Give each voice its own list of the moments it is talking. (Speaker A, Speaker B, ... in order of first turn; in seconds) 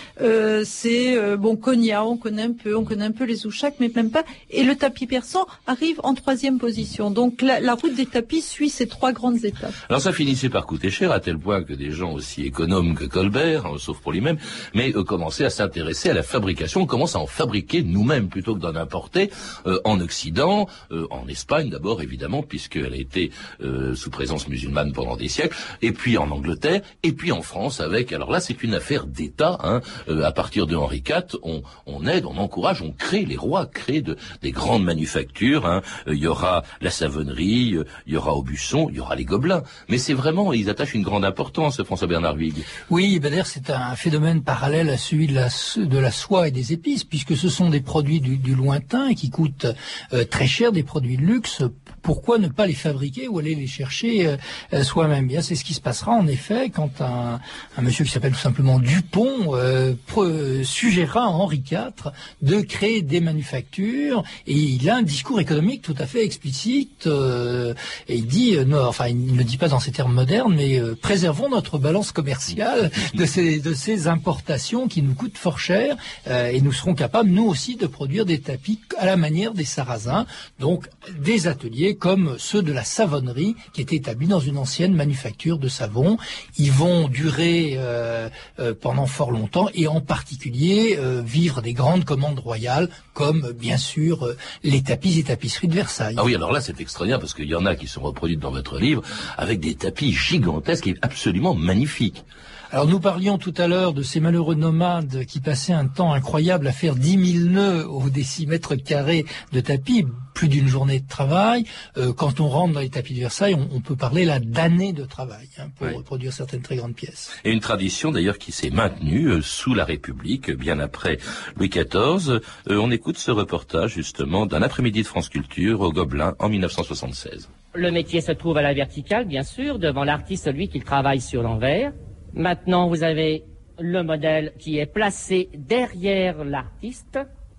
Speaker A: 0.2-9.8
Speaker B: 9.9-42.7, 96.2-102.2, 117.4-127.5
Speaker C: 42.9-96.2, 102.7-117.3
Speaker D: 127.7-137.2